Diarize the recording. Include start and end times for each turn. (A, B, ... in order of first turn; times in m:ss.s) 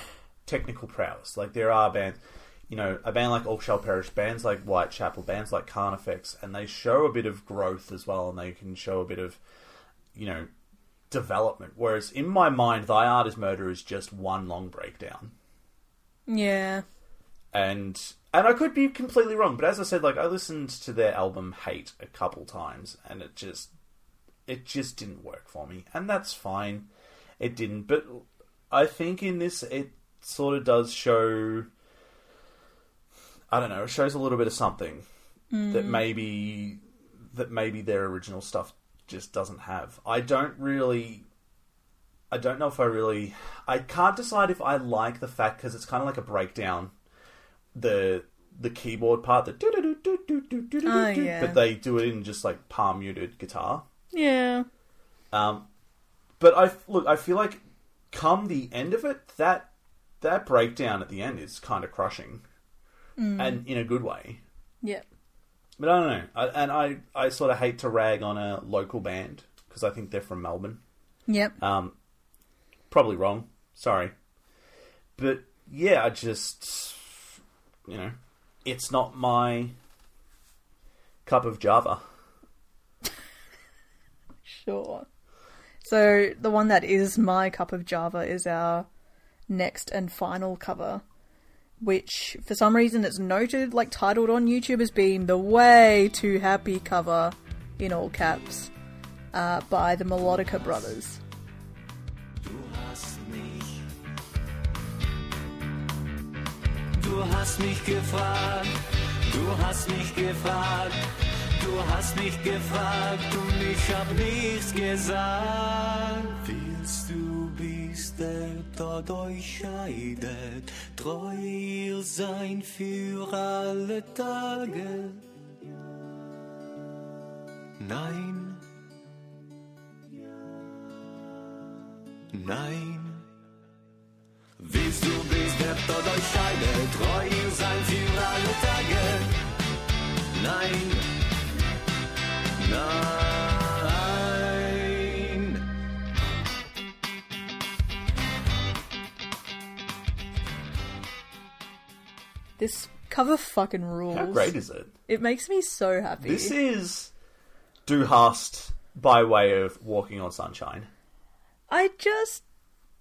0:00.4-0:09.4 A
0:10.1-0:10.5 A
0:11.1-0:15.3 A
0:16.3-0:16.8 B
0:17.5-0:23.7 A
0:24.4-0:26.9 A
0:27.4-0:31.7 A
0:33.5-0:35.0 A
0:35.5-0:36.0 B
0:35.7-0:41.2 A
0:42.3-0:46.9 A
0:47.7-0:53.8 A
0:50.8-0:51.6 B
0:54.1-0:54.7 B
0:55.3-0:55.7 A
0:56.4-0:57.6 A
0:58.1-1:02.4 A
1:03.2-1:03.6 B
1:03.4-1:04.4 A
1:05.8-1:10.8 A
1:11.3-1:11.6 B
1:11.6-1:12.0 A
1:12.9-1:14.1 A
1:15.2-1:17.4 A
1:17.9-1:19.7 A
1:21.2-1:22.0 A
1:24.4-1:25.0 B
1:25.8-1:28.9 B
1:29.5-1:31.0 B
1:31.8-1:38.7 B
1:39.3-1:41.2 B
1:42.4-1:43.9 C
1:46.9-2:05.3 C
2:07.8-2:08.6 C
2:12.3-2:13.3 C
2:14.6-2:19.3 C
2:20.3-2:21.1 C
2:22.6-2:25.6 C
2:32.6-2:34.5 B
2:34.1-2:34.9 A
2:35.1-2:36.6 B
2:36.2-2:37.1 A
2:37.8-2:40.9 A
2:41.7-2:42.4 B